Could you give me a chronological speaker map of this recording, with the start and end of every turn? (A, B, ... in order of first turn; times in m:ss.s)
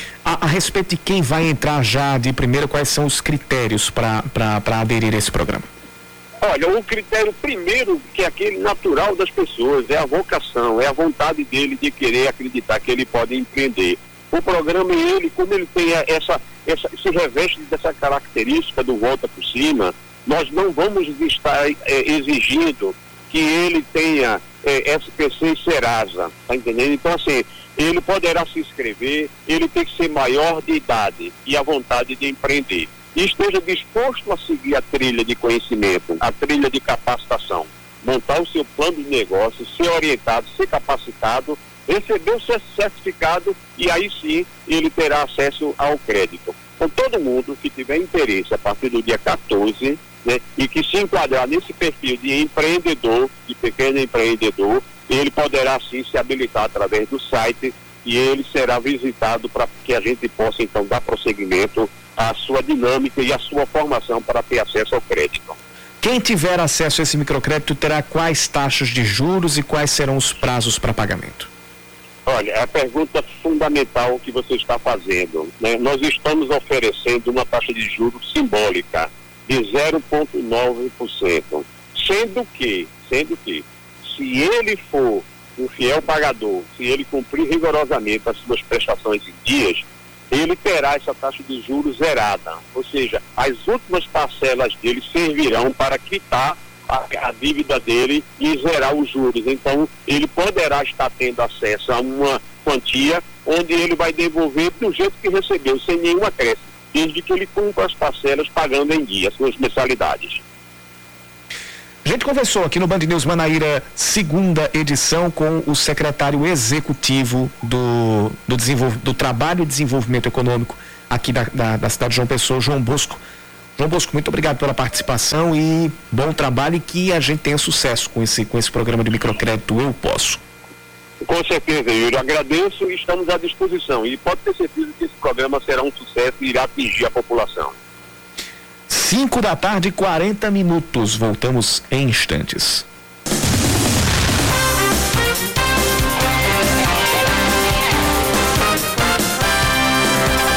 0:00.2-0:05.7 A
0:06.4-1:05.6 B
1:06.0-1:11.5 A
1:12.2-1:50.4 B
1:52.0-2:03.2 A
2:03.8-2:10.4 A
2:11.2-2:17.8 B
2:18.9-2:22.8 A